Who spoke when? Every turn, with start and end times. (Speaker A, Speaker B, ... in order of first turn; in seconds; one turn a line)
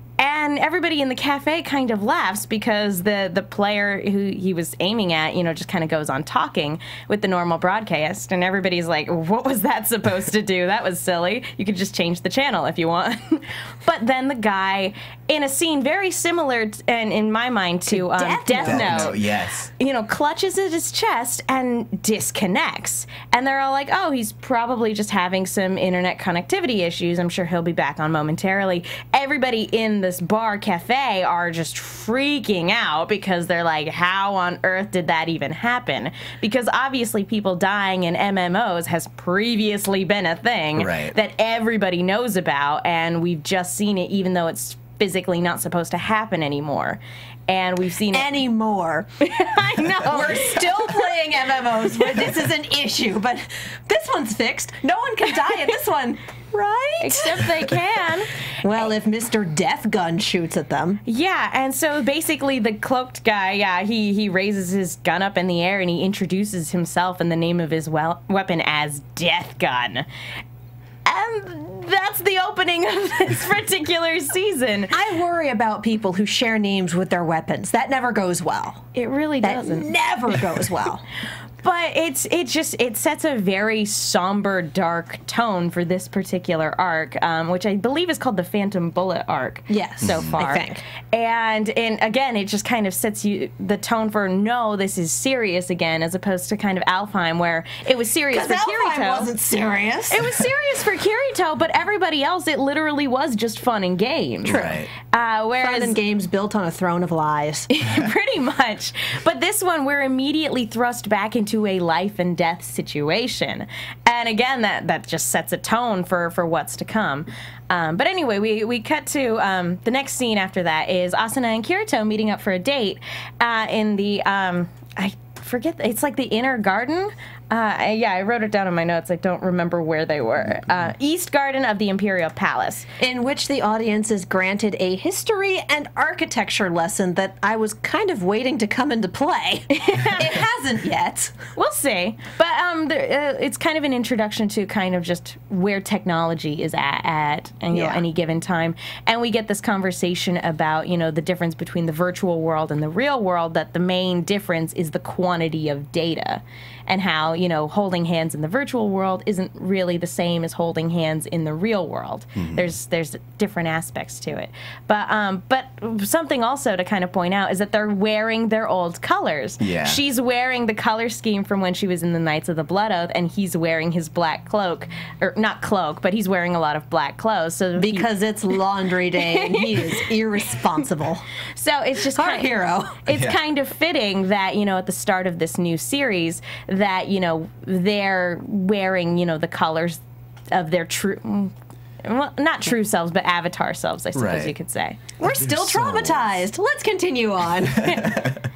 Speaker A: 0.2-19.2
Speaker B: 17.9-19.2
Speaker C: 18.6-19.7
Speaker A: 19.8-48.3
Speaker C: 40.7-41.1
Speaker B: 48.1-49.1
Speaker A: 49.2-51.1
Speaker B: 50.0-57.8
Speaker A: 57.0-58.4
Speaker B: 58.6-61.0
Speaker A: 61.0-70.0
Speaker A: 71.0-74.9
Speaker B: 74.9-78.9
Speaker A: 78.9-79.9
Speaker B: 79.4-81.0
Speaker A: 81.6-99.3
Speaker B: 89.7-90.8
Speaker C: 90.0-90.4
Speaker B: 98.3-100.4
Speaker A: 100.1-106.0
Speaker C: 104.4-104.9
Speaker B: 104.5-104.8
Speaker B: 105.6-107.7
Speaker A: 107.7-132.9
Speaker B: 133.0-141.4
Speaker A: 139.8-140.4
Speaker A: 141.6-178.1
Speaker B: 147.7-148.0
Speaker C: 162.4-162.7
Speaker C: 169.6-170.0
Speaker B: 177.8-181.2
Speaker A: 179.2-180.1
Speaker A: 181.5-182.5
Speaker B: 182.1-183.0
Speaker A: 183.0-190.0
Speaker C: 183.1-183.4
Speaker A: 190.5-195.1
Speaker C: 194.1-194.5
Speaker B: 195.2-198.1
Speaker C: 195.2-196.4
Speaker C: 197.7-198.4